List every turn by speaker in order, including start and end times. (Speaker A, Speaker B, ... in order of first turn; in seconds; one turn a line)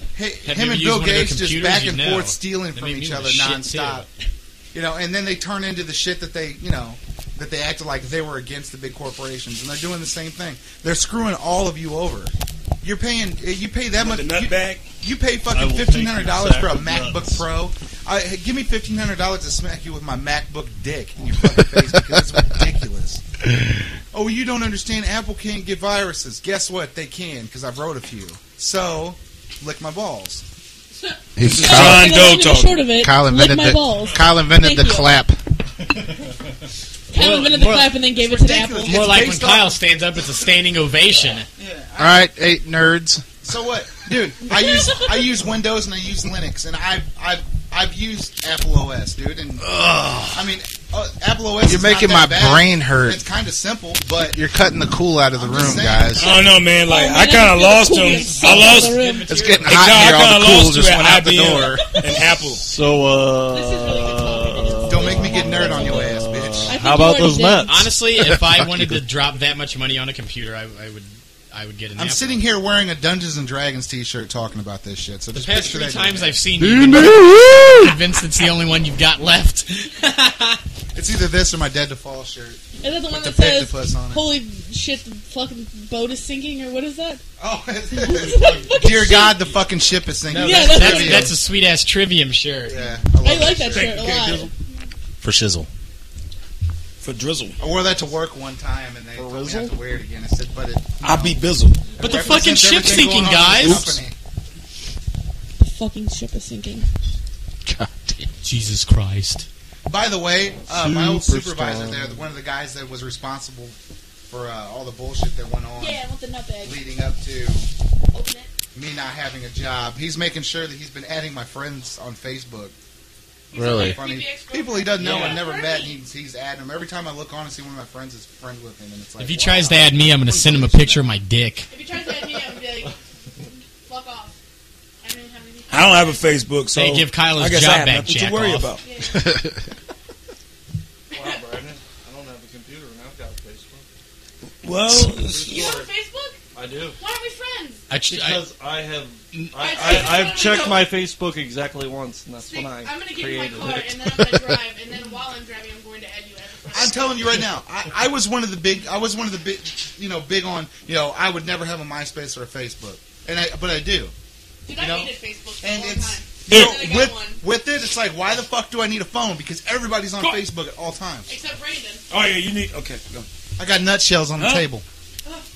Speaker A: 0.1-4.1
Speaker B: 0.5-4.1
Speaker A: 4.7-23.2
Speaker C: 14.0-14.8
Speaker D: 15.5-17.4
Speaker A: 24.1-30.4
Speaker E: 31.0-35.1
Speaker F: 31.4-32.3
Speaker C: 31.5-32.8
Speaker F: 33.0-35.4
Speaker E: 37.1-39.2
Speaker B: 37.1-38.0
Speaker A: 38.2-39.7
Speaker B: 38.8-41.5
Speaker A: 41.6-42.2
Speaker F: 42.0-43.2
Speaker A: 43.4-49.7
Speaker E: 44.5-45.1
Speaker F: 49.6-50.5
Speaker A: 50.3-54.4
Speaker F: 51.6-53.2
Speaker F: 54.3-56.3
Speaker A: 55.4-56.3
Speaker C: 56.2-59.0
Speaker E: 56.2-59.3
Speaker B: 58.3-60.1
Speaker F: 59.3-61.9
Speaker C: 59.7-62.6
Speaker D: 62.4-67.9
Speaker E: 63.5-66.1
Speaker A: 64.9-66.7
Speaker E: 66.7-67.8
Speaker B: 67.7-72.4
Speaker F: 68.2-69.0
Speaker A: 72.0-76.4
Speaker B: 75.3-80.6
Speaker F: 76.6-77.9
Speaker A: 80.9-84.2
Speaker E: 82.8-87.2
Speaker A: 87.4-91.4
Speaker E: 88.0-89.4
Speaker D: 88.4-88.7
Speaker B: 90.3-92.8
Speaker E: 90.3-91.3
Speaker A: 92.7-94.0
Speaker E: 93.2-94.5
Speaker C: 93.7-94.5
Speaker F: 95.2-95.7
Speaker C: 97.0-97.6
Speaker A: 97.6-101.4
Speaker D: 99.2-99.8
Speaker C: 101.0-101.8
Speaker A: 102.0-104.2
Speaker B: 102.0-104.0
Speaker E: 105.6-106.9
Speaker F: 107.7-108.3
Speaker B: 108.4-109.5
Speaker A: 109.9-113.8
Speaker D: 110.7-112.2
Speaker A: 114.3-116.0
Speaker E: 115.8-116.8
Speaker A: 116.6-117.7
Speaker E: 118.1-118.5
Speaker A: 118.8-122.7
Speaker E: 123.5-126.0
Speaker F: 123.5-124.0
Speaker A: 123.5-131.0
Speaker B: 125.0-125.4
Speaker B: 129.2-131.7
Speaker E: 131.7-134.4
Speaker E: 135.0-136.2
Speaker C: 135.7-138.8
Speaker B: 136.7-138.7
Speaker E: 138.8-139.4
Speaker F: 139.2-139.6
Speaker D: 141.1-143.9
Speaker E: 141.1-141.4
Speaker C: 144.6-145.7
Speaker D: 145.0-145.9
Speaker E: 145.4-146.4
Speaker D: 146.5-147.0
Speaker E: 147.0-147.8
Speaker B: 147.9-148.4
Speaker D: 148.1-154.5
Speaker B: 149.3-150.2
Speaker E: 149.6-150.9
Speaker E: 152.4-157.3
Speaker A: 156.7-164.1
Speaker E: 164.7-167.4
Speaker A: 164.8-171.3
Speaker E: 171.3-172.0
Speaker C: 172.1-173.3
Speaker A: 173.6-174.8
Speaker C: 174.4-174.7